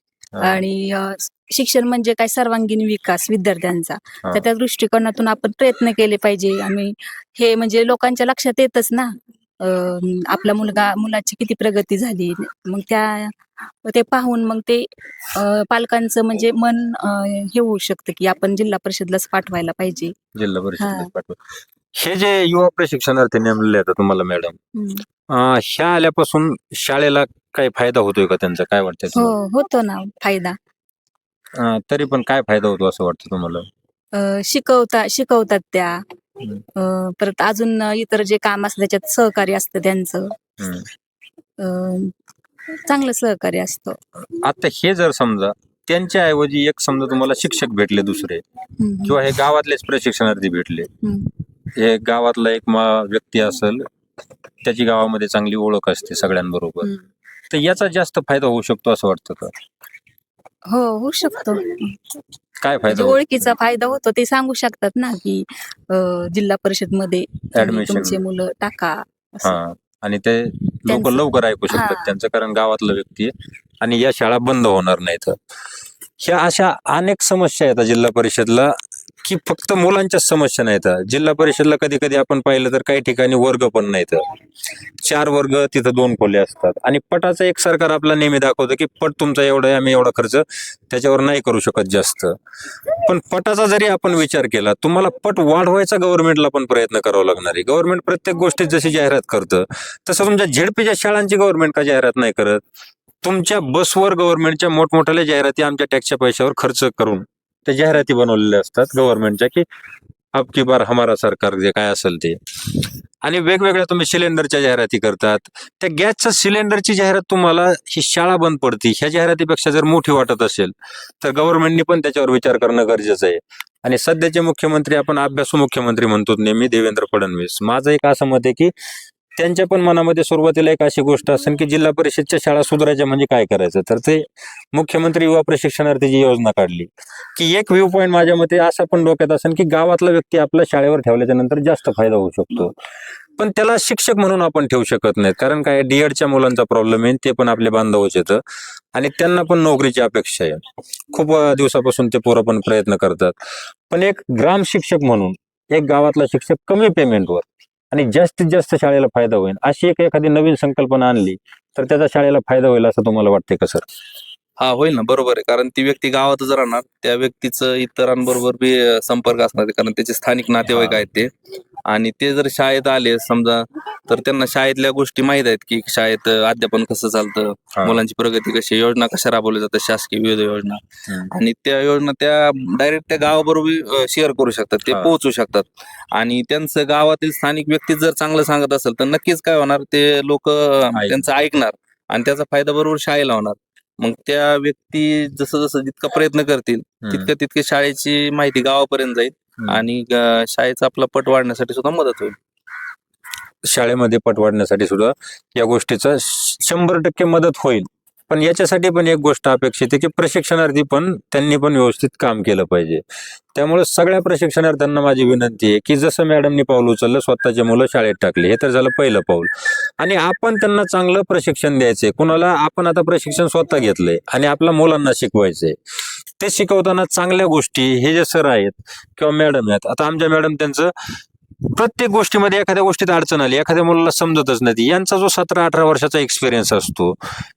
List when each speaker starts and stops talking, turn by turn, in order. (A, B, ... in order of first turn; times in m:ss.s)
0:00.3-0:00.6 A
0:00.4-0:20.1 B
0:20.4-0:21.4 A
0:20.8-0:21.1 B
0:22.0-0:24.6 A
0:24.8-0:25.0 B
0:25.3-0:29.4 A
0:29.1-0:30.6 B
0:31.5-0:33.7 A
0:34.1-0:36.0 B
0:36.8-0:40.4 B
0:40.6-0:40.9 A
0:41.6-0:42.1 B
0:42.8-0:44.0 B
0:44.4-0:48.4 A
0:48.8-0:49.2 B
0:49.0-0:50.9 A
0:51.0-0:51.3 B
0:51.8-0:53.9 A
0:54.6-0:56.9 A
0:57.5-0:59.5 A
1:00.7-1:02.0 B
1:02.6-1:03.5 A
1:02.9-1:09.5 B
1:07.6-1:08.2 A
1:09.4-1:15.4 A
1:10.9-1:12.1 B
1:16.2-1:24.2 A
1:25.0-1:32.4 A
1:33.0-1:42.6 A
1:43.2-1:49.6 A
1:50.3-1:52.4 A
1:53.2-2:08.7 A
2:09.4-2:22.8 A
2:23.4-2:28.4 A
2:28.9-2:33.4 A
2:33.9-2:43.9 A
2:44.6-2:51.3 C
2:50.7-2:51.0 A
2:51.9-3:22.4 C
2:57.8-2:58.0 A
3:04.9-3:05.1 A
3:10.9-3:11.2 A
3:17.0-3:17.3 A
3:23.6-3:33.0 A
3:33.6-3:45.8 A
3:46.4-3:50.9 A
3:51.6-3:57.2 A